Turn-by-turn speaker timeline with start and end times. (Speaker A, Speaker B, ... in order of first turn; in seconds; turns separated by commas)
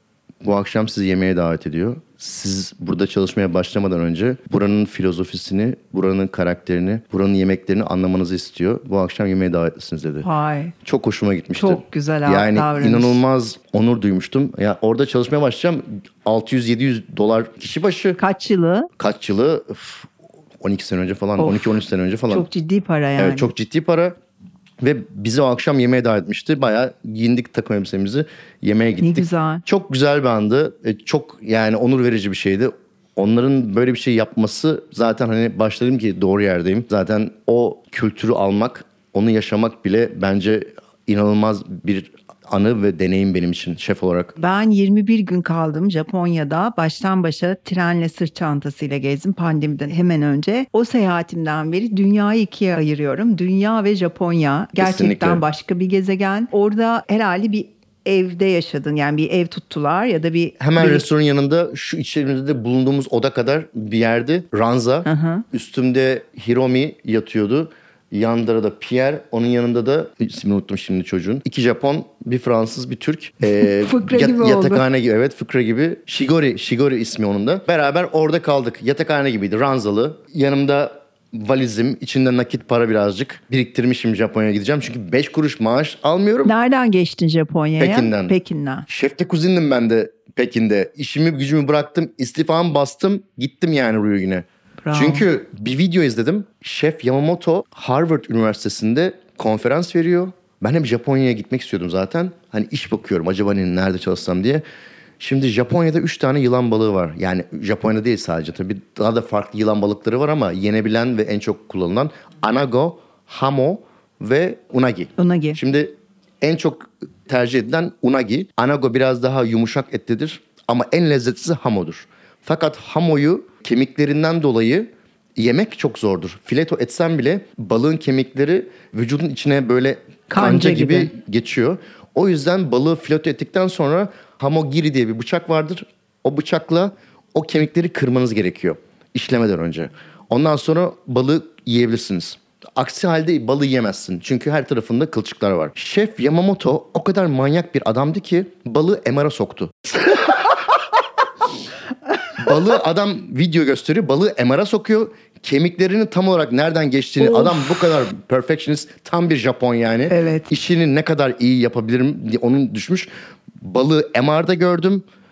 Speaker A: 0.4-10.3, Speaker B: 10.2-10.7, Speaker A: 10.8-18.2, Speaker B: 11.6-13.2, Speaker B: 18.2-18.9, Speaker A: 19.0-20.1, Speaker A: 20.6-22.4, Speaker B: 21.4-21.8, Speaker B: 22.3-23.5, Speaker A: 23.2-24.1, Speaker A: 24.8-44.3, Speaker B: 29.0-29.6, Speaker B: 44.4-61.0, Speaker A: 54.8-55.4, Speaker A: 60.6-86.5, Speaker B: 65.0-65.4, Speaker B: 73.6-74.8, Speaker B: 86.4-88.8, Speaker A: 87.8-88.3, Speaker A: 88.9-104.6, Speaker B: 94.8-95.2, Speaker A: 105.2-150.2, Speaker B: 115.2-115.6, Speaker B: 130.3-131.1, Speaker A: 152.4-163.1, Speaker B: 157.2-157.6, Speaker B: 160.1-160.5, Speaker A: 163.6-165.0